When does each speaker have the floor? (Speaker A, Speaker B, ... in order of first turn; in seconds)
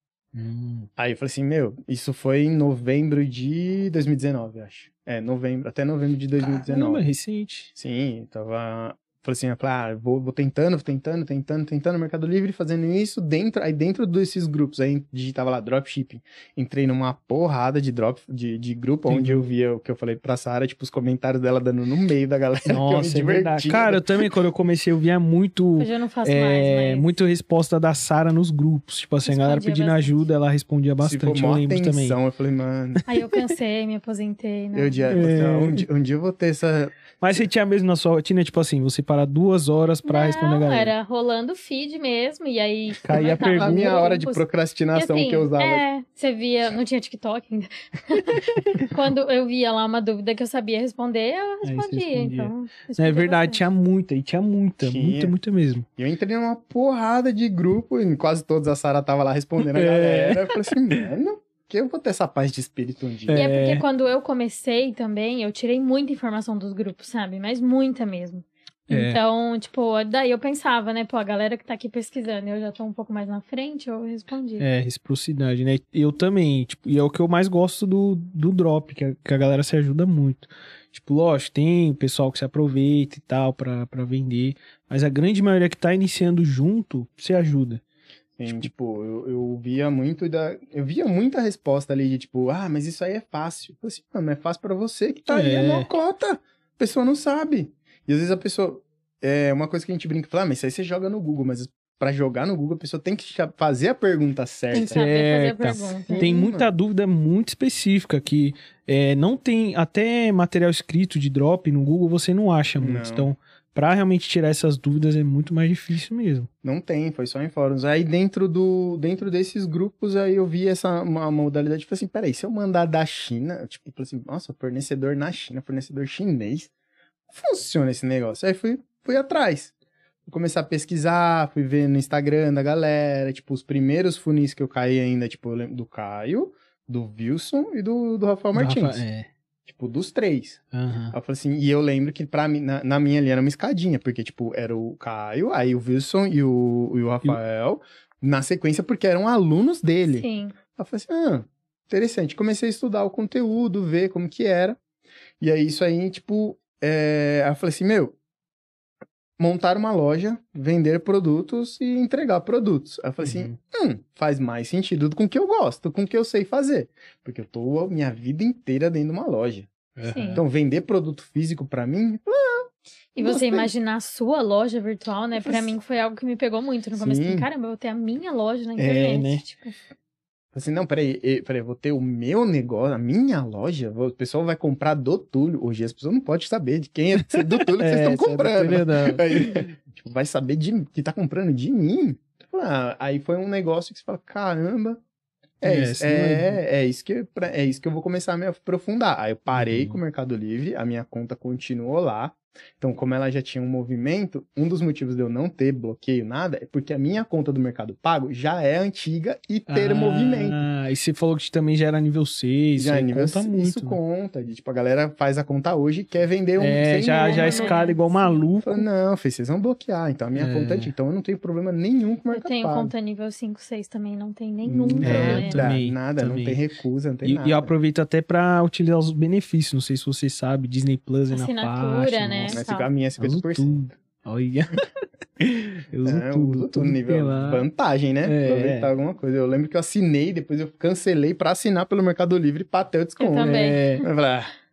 Speaker A: 0.3-0.9, 6.4-7.7, 19.1-19.4, 22.6-32.2, 33.0-33.4, 35.1-35.8, 37.2-40.9, 43.0-44.1, 51.6-55.9, 59.6-61.0, 63.2-63.8, 68.9-69.2, 74.6-87.8, 95.3-95.9, 104.8-116.5, 138.5-139.3, 140.7-141.1, 163.2-163.6, 169.9-170.4, 178.8-179.4, 187.3-189.7, 195.6-196.6, 199.5-200.0, 209.7-214.0, 216.6-218.8, 220.3-220.9, 225.0-226.6, 227.2-232.6, 233.2-237.7, 238.2-238.9, 243.4-244.0
Speaker B: 1.0-7.1, 7.7-24.3, 31.0-33.0, 34.7-37.1, 43.4-45.8, 54.8-55.4, 56.0-63.4, 88.4-105.0, 106.1-106.7, 112.8-113.3, 116.6-126.7, 127.3-129.7, 130.2-139.0, 139.6-140.6, 141.1-154.8, 155.4-158.1, 159.4-169.7, 170.3-173.7, 175.4-175.7, 176.9-177.5, 180.5-195.0, 195.6-210.6, 212.8-217.8, 218.6-222.9, 224.6-227.7, 232.5-233.8, 236.1-244.5
Speaker C: 25.8-27.1, 29.2-30.2, 33.1-35.1, 40.0-44.4, 44.9-53.6, 63.3-74.6, 104.7-106.3, 150.1-150.5, 170.1-170.4, 173.1-179.8, 217.1-218.4, 222.3-225.7, 231.3-232.9, 243.2-243.9